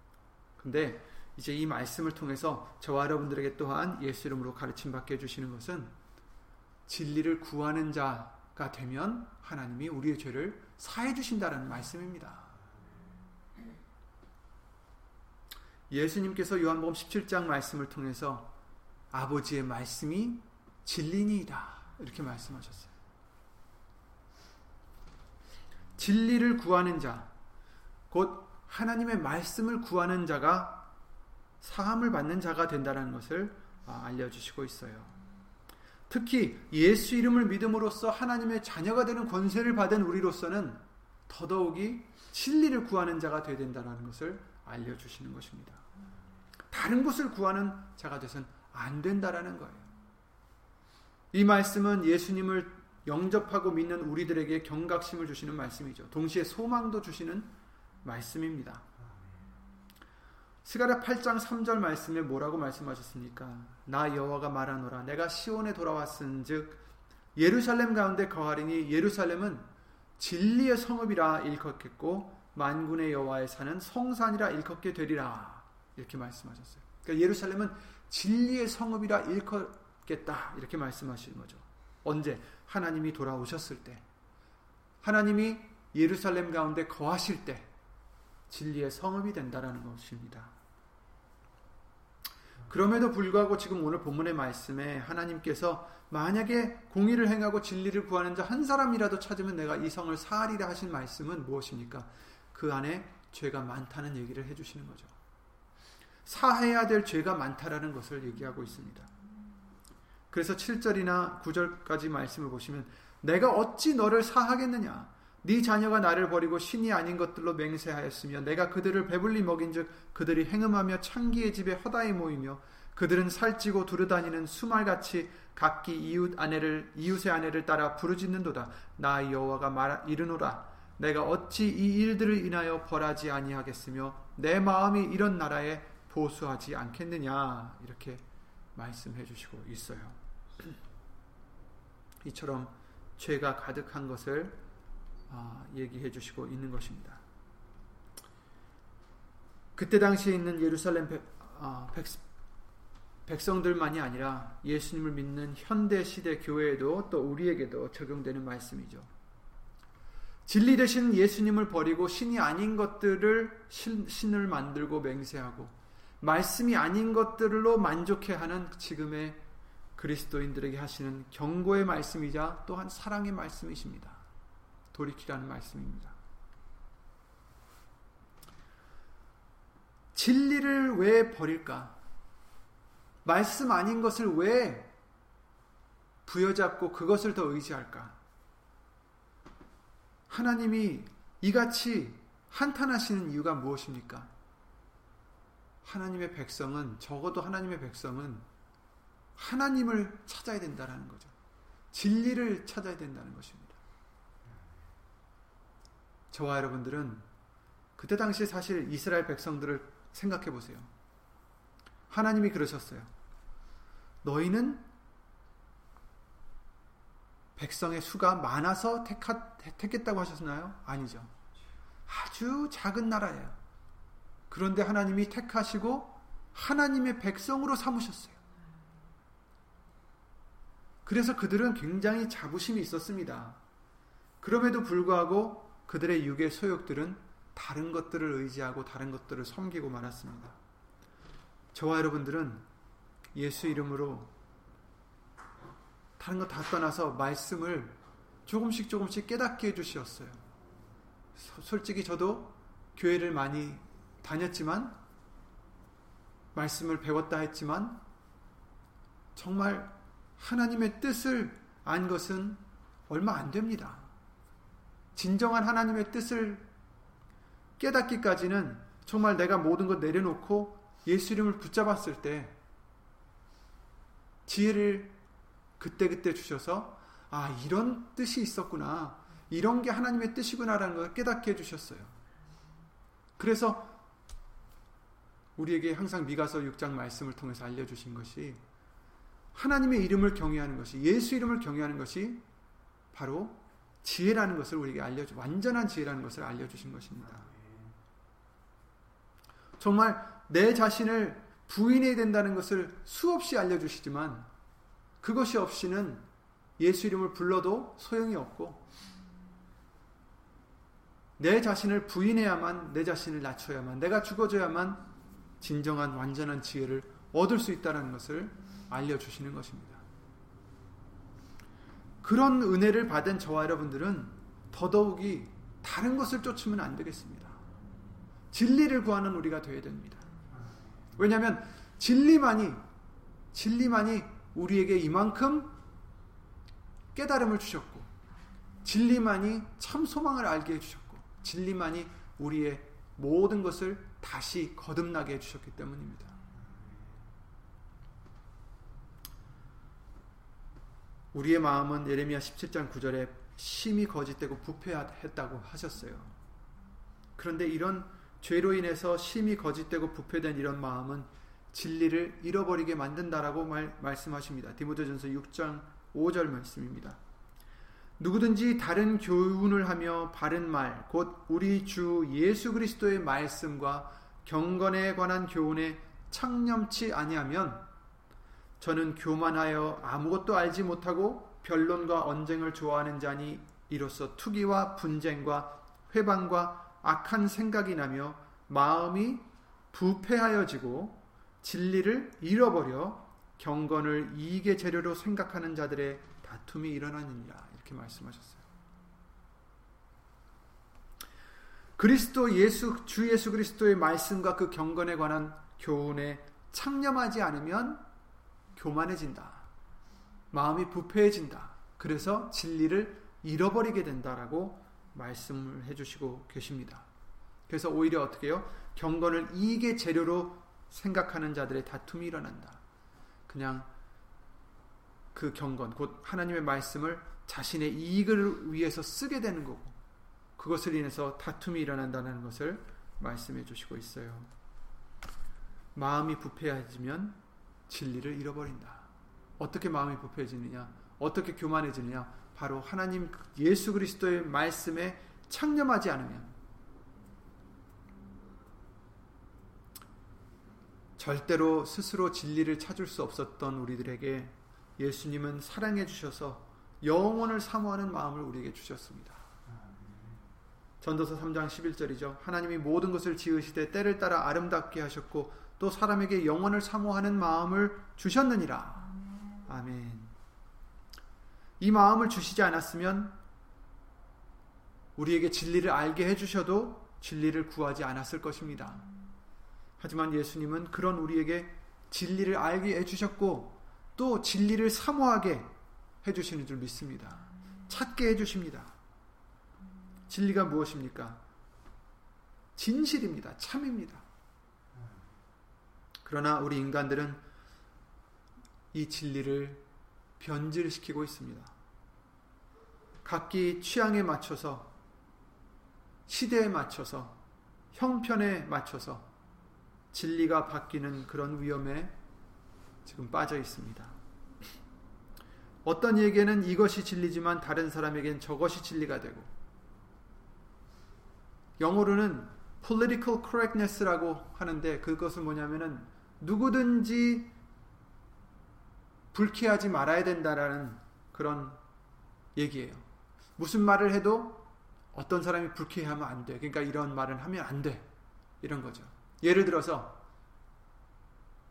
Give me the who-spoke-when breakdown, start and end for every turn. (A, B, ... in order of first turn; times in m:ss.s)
0:00.6-0:06.0 A
0:06.9-0:12.6 A
0:15.9-0:18.5 A
0:19.1-0:22.9 A
0:26.0-0:27.3 A
0:28.1-0:30.9 A
0:31.6-0:35.2 A
0:36.1-0:45.8 A
0:46.7-0:49.9 A
0:51.3-0:57.5 A
0:58.0-0:58.9 A
1:00.6-1:06.8 A
1:07.4-1:24.0 A
1:25.0-1:27.7 A
1:28.5-1:30.5 A
1:32.7-1:45.1 A
1:46.3-1:49.1 A
1:50.3-2:18.2 A
2:18.8-2:20.8 A
2:22.2-2:24.6 A
2:25.3-2:27.2 A
2:29.8-2:32.2 A
2:33.3-2:39.1 A
2:40.5-2:49.4 A
2:50.0-2:54.2 A
2:54.9-2:56.2 A
3:00.1-3:02.0 A
3:03.2-3:04.9 A
3:06.3-3:08.2 A
3:10.3-3:14.3 A
3:15.8-3:18.5 A
3:19.4-3:21.3 A
3:21.9-3:23.8 A
3:26.3-3:27.3 A
3:28.0-3:30.9 A
3:32.1-3:33.1 A
3:34.2-3:34.9 A
3:37.6-3:41.3 A
3:42.1-3:43.6 A
3:44.5-3:48.4 A
3:51.1-3:53.6 A
3:54.4-4:00.6 A
4:01.7-4:02.6 A
4:03.4-4:04.3 A
4:06.2-4:10.4 A
4:11.4-4:15.0 A
4:16.5-4:18.0 A
4:19.4-4:24.1 A
4:25.2-4:26.7 A
4:27.8-4:32.6 A
4:34.5-4:35.2 A
4:35.8-4:42.2 A
4:43.4-4:44.0 A
4:45.6-4:48.6 A
4:49.5-4:52.4 A
4:53.1-4:57.6 A
4:59.8-5:04.5 A
5:05.2-5:06.3 A
5:06.8-5:08.8 A
5:11.4-5:15.0 A
5:15.6-5:20.0 A
5:22.2-5:27.6 A
5:28.5-5:30.3 A
5:31.2-5:32.8 A
5:33.5-5:35.8 A
5:37.2-5:38.1 A
5:38.8-5:46.4 A
5:51.3-5:56.3 A
5:57.4-6:07.2 A
6:08.2-6:17.9 A
6:18.8-6:38.6 A
6:42.0-6:48.0 A
6:48.8-6:49.7 A
6:50.5-6:57.1 A
6:57.7-7:02.8 A
7:03.5-7:03.9 A
7:05.3-7:10.0 A
7:10.6-7:14.5 A
7:16.0-7:17.4 A
7:17.9-7:26.6 A
7:31.2-7:39.4 A
7:41.0-7:49.1 A
7:49.7-7:50.3 A
7:51.8-7:53.4 A
7:55.2-7:59.1 A
8:00.0-8:05.7 A
8:06.2-8:08.9 A
8:10.3-8:11.4 A
8:12.8-8:14.2 A
8:16.2-8:17.4 A
8:18.9-8:19.8 A
8:20.4-8:21.7 A
8:23.2-8:24.9 A
8:26.3-8:27.4 A
8:27.9-8:29.3 A
8:30.1-8:32.2 A
8:33.0-8:34.2 A
8:35.8-8:39.5 A
8:41.8-8:47.5 A
8:49.3-8:51.8 A
8:52.6-8:53.1 A
8:53.6-8:58.1 A
8:58.6-9:00.2 A